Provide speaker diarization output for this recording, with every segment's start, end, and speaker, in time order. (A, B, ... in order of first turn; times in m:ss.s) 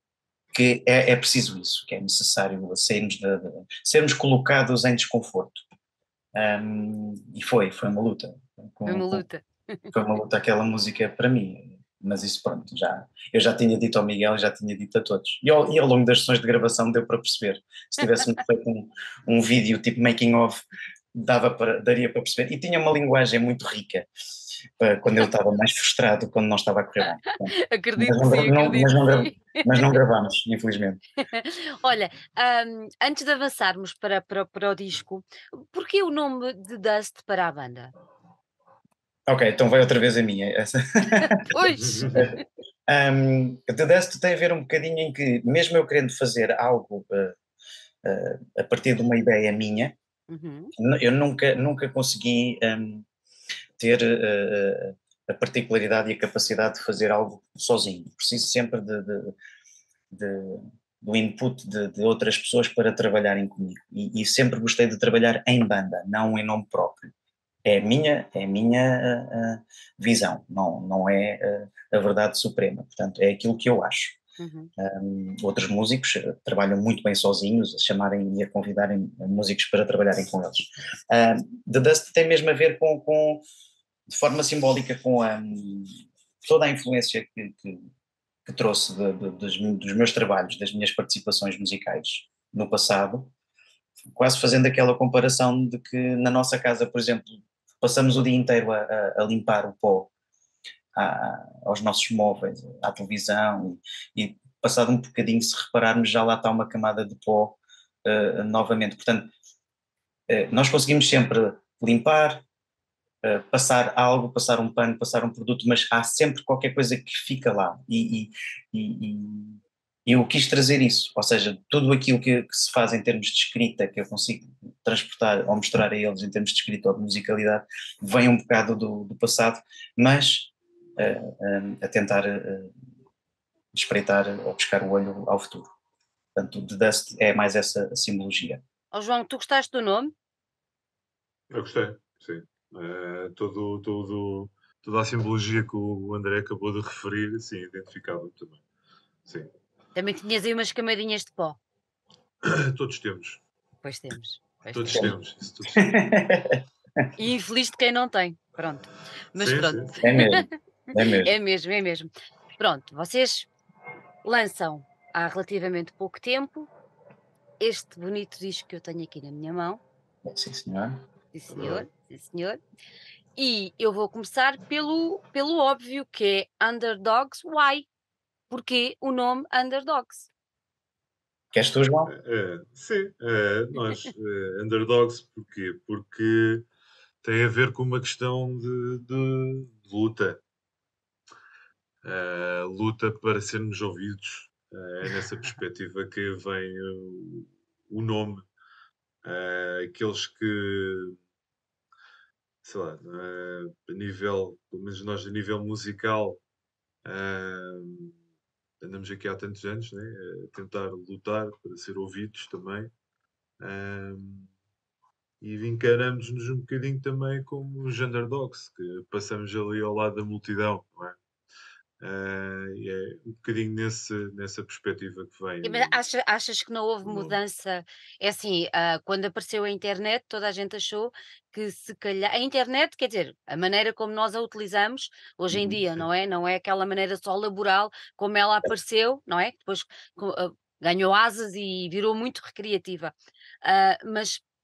0:00.5-0:05.6 A
0:06.3-0:09.2 A
0:08.8-0:09.9 B
0:09.9-0:24.1 A
0:24.8-0:31.0 A
0:27.3-0:29.9 B
0:31.2-0:37.9 B
0:39.3-0:41.5 A
0:41.2-0:42.4 B
0:41.7-0:42.3 C
0:42.1-0:47.3 A
0:48.0-0:49.9 A
0:50.3-0:50.7 B
0:50.8-0:53.0 A
0:53.8-0:59.3 A
1:00.1-1:07.1 A
1:07.6-1:14.2 A
1:14.4-1:14.7 B
1:14.8-1:23.4 A
1:24.1-1:27.9 A
1:28.4-1:33.3 A
1:34.1-1:40.1 A
1:40.9-1:49.3 A
1:50.3-1:52.4 A
1:53.2-2:12.7 A
2:13.7-2:15.7 A
2:16.3-2:18.6 A
2:18.9-2:20.1 B
2:21.5-2:28.6 C
2:29.9-2:31.6 B
2:32.4-2:33.4 C
2:33.8-2:35.1 B
2:34.7-2:36.0 C
2:35.7-2:36.6 A
2:37.2-2:40.5 B
2:39.4-2:40.0 C
2:40.0-2:41.4 A
2:41.1-2:43.5 B
2:44.2-2:46.7 B
2:47.6-2:49.8 B
2:50.2-2:51.0 A
2:51.3-2:52.6 B
2:51.5-2:51.8 C
2:53.4-2:57.9 B
2:58.5-3:00.3 B
3:01.5-3:02.1 A
3:02.1-3:06.6 C
3:07.2-3:10.4 C
3:12.0-3:18.4 C
3:19.2-3:21.2 C
3:22.6-3:26.4 C
3:27.0-3:28.1 C
3:28.8-3:32.9 C
3:33.6-3:34.5 C
3:35.4-3:41.2 C
3:42.0-3:46.0 C
3:45.6-4:04.4 B
3:47.0-3:47.4 C